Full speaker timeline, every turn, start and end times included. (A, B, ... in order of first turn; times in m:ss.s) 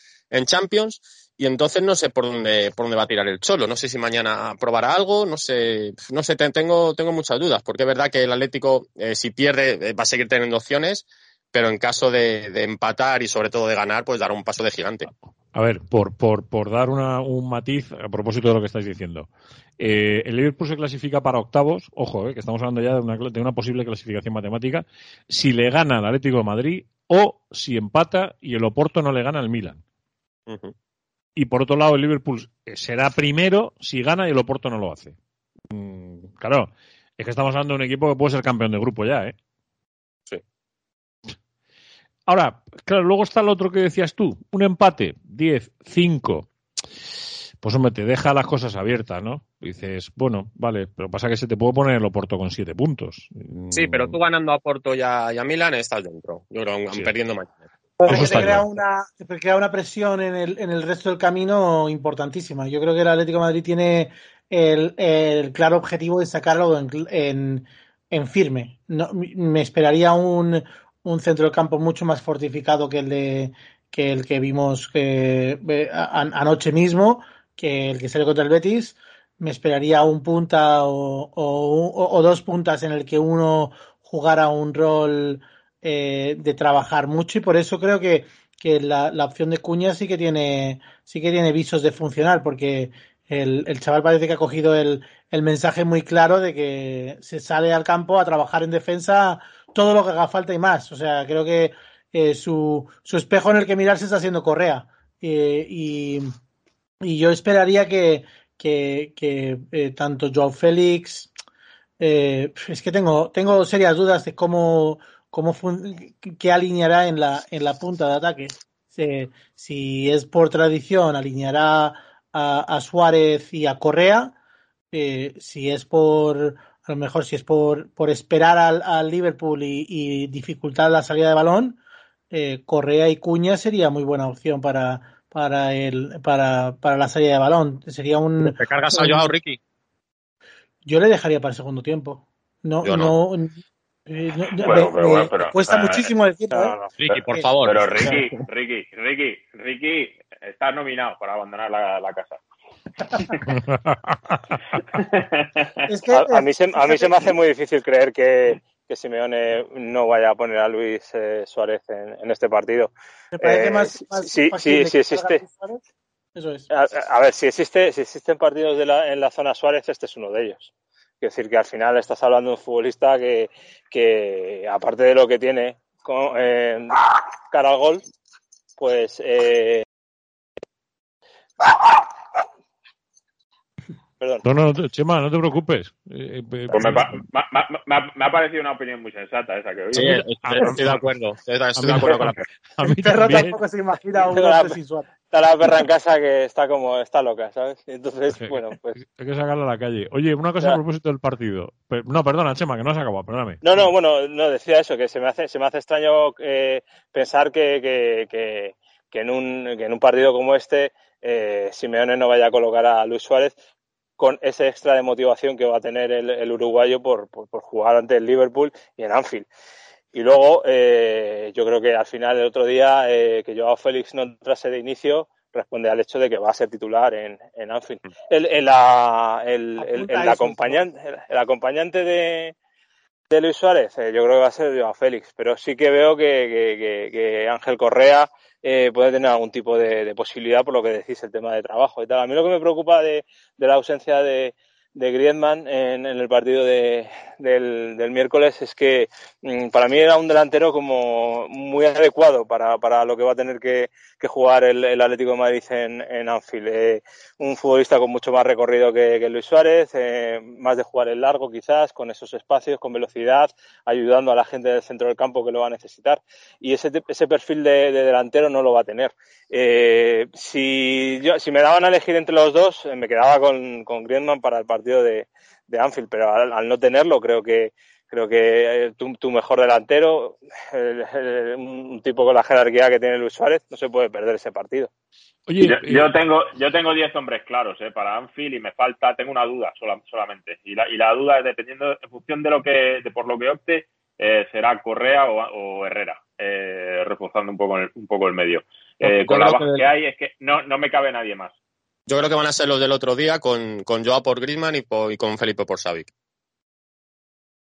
0:00.3-0:15.1 A
0:15.5-0:29.8 B
0:30.5-0:30.7 A
0:31.4-0:35.2 B
0:35.7-0:39.3 B
0:42.3-0:46.5 B
0:47.6-0:54.2 B
0:53.7-0:58.7 A
0:58.0-1:46.3 C
0:58.1-0:58.6 B
1:47.0-1:51.3 C
1:52.0-2:04.4 C
2:04.9-2:11.8 C
2:12.3-2:19.3 C
2:18.4-2:19.6 A
2:20.8-2:28.2 C
2:22.8-2:23.1 A
2:24.6-2:32.4 D
2:27.0-2:28.3 A
2:33.5-2:34.8 B
2:34.9-2:35.8 D
2:35.9-2:37.4 C
2:36.1-2:45.4 E
2:43.4-2:45.8 C
2:46.4-2:46.7 C
2:46.7-2:58.0 E
2:58.8-2:59.8 E
3:04.4-3:07.2 B
3:06.7-3:10.2 D
3:09.9-3:12.4 A
3:09.9-3:11.1 B
3:11.8-3:13.6 B
3:12.8-3:15.1 C
3:14.2-3:14.8 E
3:15.3-3:19.0 E
3:18.3-3:23.9 B
3:23.6-3:33.6 E
3:34.2-3:39.5 E
3:40.1-3:52.5 E
3:49.8-3:50.8 C
3:53.3-4:44.9 E
4:45.5-4:46.1 B
4:45.6-5:01.5 D
4:59.0-4:59.8 A
5:02.1-5:06.1 A